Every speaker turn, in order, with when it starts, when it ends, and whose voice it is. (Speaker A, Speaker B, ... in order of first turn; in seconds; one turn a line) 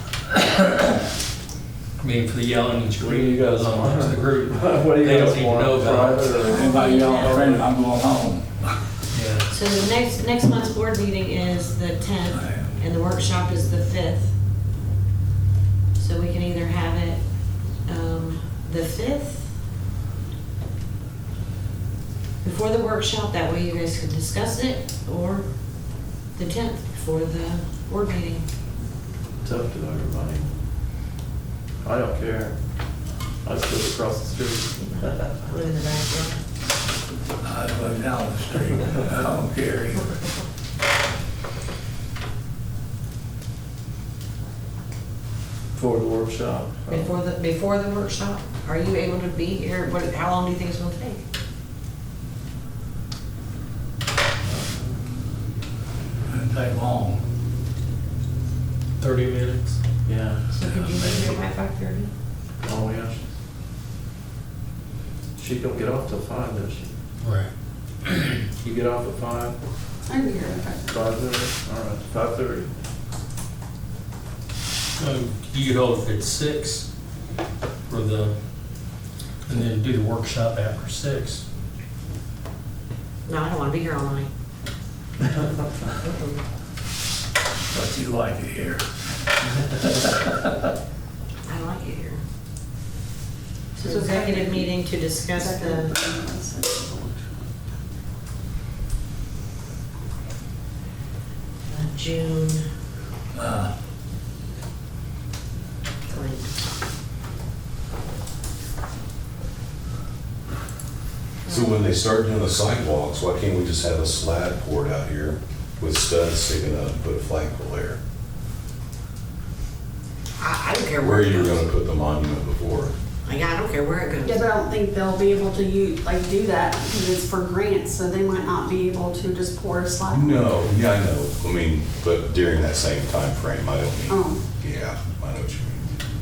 Speaker A: 2.0-6.5
Speaker B: 3.0-7.7
Speaker C: 6.2-7.5
Speaker D: 6.4-8.8
Speaker A: 9.1-9.5
Speaker C: 9.5-14.3
Speaker D: 12.2-12.8
Speaker C: 15.9-17.2
Speaker C: 17.9-19.5
Speaker C: 22.4-25.4
Speaker C: 26.4-28.4
Speaker B: 29.4-30.5
Speaker B: 31.8-32.6
Speaker B: 33.4-35.3
Speaker C: 35.4-36.4
Speaker D: 37.4-40.1
Speaker B: 45.7-47.2
Speaker C: 46.9-51.2
Speaker B: 54.4-55.0
Speaker D: 56.3-57.2
Speaker A: 59.0-59.8
Speaker B: 60.1-61.4
Speaker C: 60.5-62.1
Speaker B: 62.6-63.2
Speaker B: 65.4-66.9
Speaker A: 67.2-67.5
Speaker A: 68.1-68.3
Speaker B: 68.6-69.6
Speaker E: 70.1-71.1
Speaker B: 70.9-72.7
Speaker A: 75.0-76.9
Speaker A: 77.9-78.3
Speaker A: 79.5-81.4
Speaker C: 83.3-84.3
Speaker C: 85.9-86.4
Speaker D: 87.7-88.8
Speaker D: 89.9-90.5
Speaker C: 91.5-92.2
Speaker C: 93.8-96.0
Speaker E: 93.8-94.7
Speaker E: 95.3-97.5
Speaker C: 101.7-102.7
Speaker D: 103.3-103.7
Speaker C: 106.1-106.6
Speaker C: 111.5-111.9
Speaker F: 111.5-118.0
Speaker C: 120.4-121.7
Speaker F: 121.0-123.0
Speaker C: 123.2-124.4
Speaker E: 124.2-130.4
Speaker F: 130.1-135.8
Speaker E: 134.1-134.4